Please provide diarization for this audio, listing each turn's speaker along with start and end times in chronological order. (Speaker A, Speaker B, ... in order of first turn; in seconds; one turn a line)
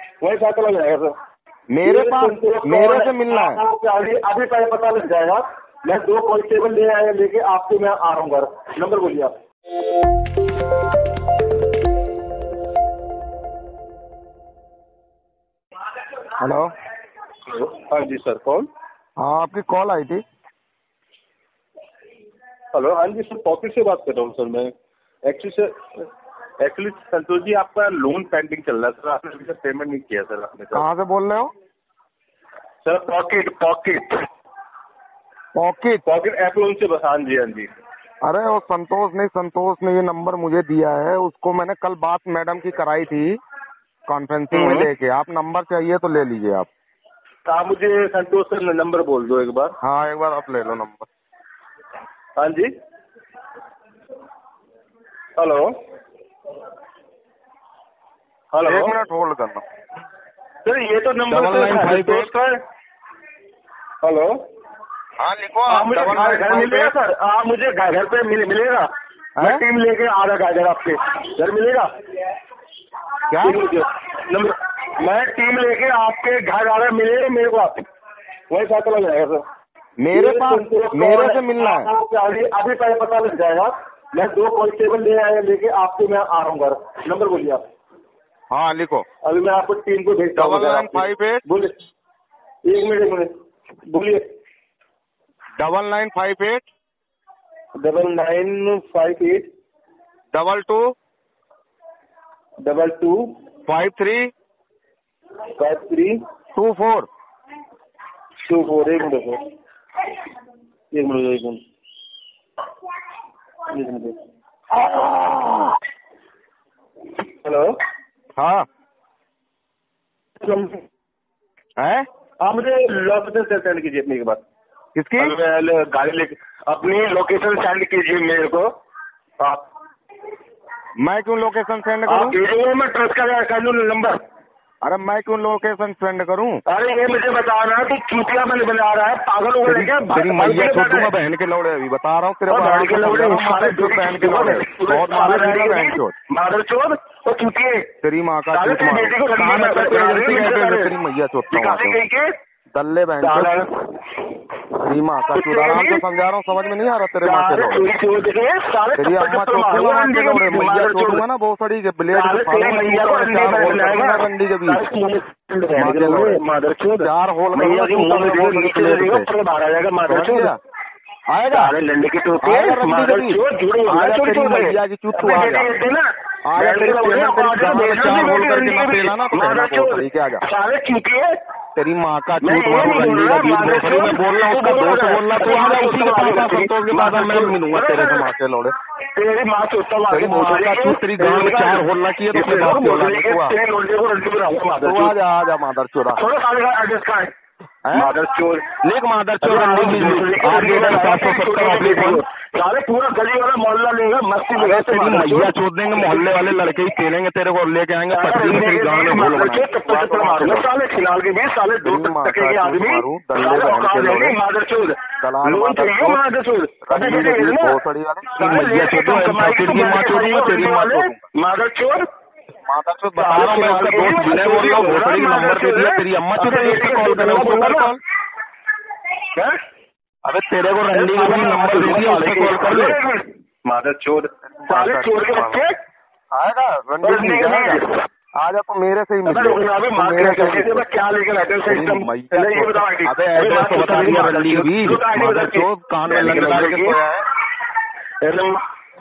Speaker A: 0.2-1.1
Speaker B: 1.7-3.6
Speaker A: 1.8-9.4
Speaker B: 16.4-16.7
Speaker A: 17.5-18.7
Speaker B: 19.2-20.2
Speaker A: 22.7-24.7
Speaker A: 25.2-26.1
Speaker A: 26.6-30.8
Speaker B: 30.7-31.5
Speaker A: 32.8-34.2
Speaker B: 35.5-36.0
Speaker A: 36.0-37.7
Speaker B: 38.2-43.4
Speaker B: 44.1-46.7
Speaker A: 44.5-44.9
Speaker A: 47.5-49.7
Speaker B: 49.8-51.1
Speaker A: 52.4-52.7
Speaker A: 55.4-55.7
Speaker A: 58.5-58.9
Speaker B: 58.6-59.6
Speaker A: 60.6-62.6
Speaker B: 61.3-62.3
Speaker A: 64.0-64.3
Speaker B: 65.2-66.9
Speaker A: 65.7-68.9
Speaker B: 69.4-69.6
Speaker A: 69.4-71.9
Speaker B: 73.3-73.6
Speaker A: 73.4-77.8
Speaker A: 78.5-79.4
Speaker B: 80.0-81.9
Speaker A: 80.1-87.7
Speaker B: 88.5-89.0
Speaker A: 89.2-91.8
Speaker B: 90.3-91.4
Speaker A: 92.7-93.3
Speaker A: 93.9-94.2
Speaker B: 95.6-96.7
Speaker A: 97.8-99.5
Speaker B: 100.3-100.9
Speaker A: 102.6-103.2
Speaker B: 103.7-104.3
Speaker A: 105.6-106.2
Speaker B: 106.5-107.1
Speaker A: 108.4-109.4
Speaker A: 110.9-111.6
Speaker A: 113.7-114.1
Speaker B: 114.8-115.6
Speaker A: 117.3-117.8
Speaker B: 118.4-118.7
Speaker A: 120.4-120.8
Speaker B: 121.8-122.0
Speaker A: 122.4-124.4
Speaker B: 125.0-125.3
Speaker A: 125.2-128.7
Speaker A: 129.4-129.7
Speaker B: 131.0-132.4
Speaker A: 132.1-134.2
Speaker B: 134.8-136.6
Speaker A: 136.7-141.1
Speaker B: 139.7-146.1
Speaker A: 142.5-147.9
Speaker B: 148.0-152.0
Speaker A: 148.5-150.9
Speaker A: 151.5-152.3
Speaker B: 152.7-153.5
Speaker A: 153.2-153.8
Speaker B: 154.8-157.9
Speaker A: 155.3-156.0
Speaker A: 157.2-161.2
Speaker B: 158.9-164.8
Speaker A: 162.1-170.5
Speaker B: 165.7-166.4
Speaker B: 167.0-169.3
Speaker B: 170.1-170.6
Speaker B: 171.3-171.7
Speaker A: 171.5-181.3
Speaker B: 172.4-175.7
Speaker B: 176.5-180.4
Speaker B: 181.8-188.7
Speaker A: 182.4-188.3
Speaker A: 189.1-195.1
Speaker B: 190.1-193.5
Speaker B: 194.8-196.2
Speaker A: 196.2-197.3
Speaker B: 197.8-198.1
Speaker A: 197.9-198.6
Speaker B: 198.8-202.2
Speaker A: 199.4-206.4
Speaker B: 204.5-210.7
Speaker A: 208.1-217.8
Speaker B: 211.8-214.3
Speaker B: 215.2-216.2
Speaker B: 216.8-221.2
Speaker A: 218.3-222.1
Speaker B: 222.6-228.0
Speaker A: 223.2-227.9
Speaker B: 230.2-233.0
Speaker A: 230.9-235.8
Speaker B: 234.6-235.6
Speaker B: 236.3-237.8
Speaker A: 237.0-238.0
Speaker B: 238.4-240.9
Speaker A: 239.2-247.0
Speaker B: 241.7-247.2
Speaker A: 248.2-248.6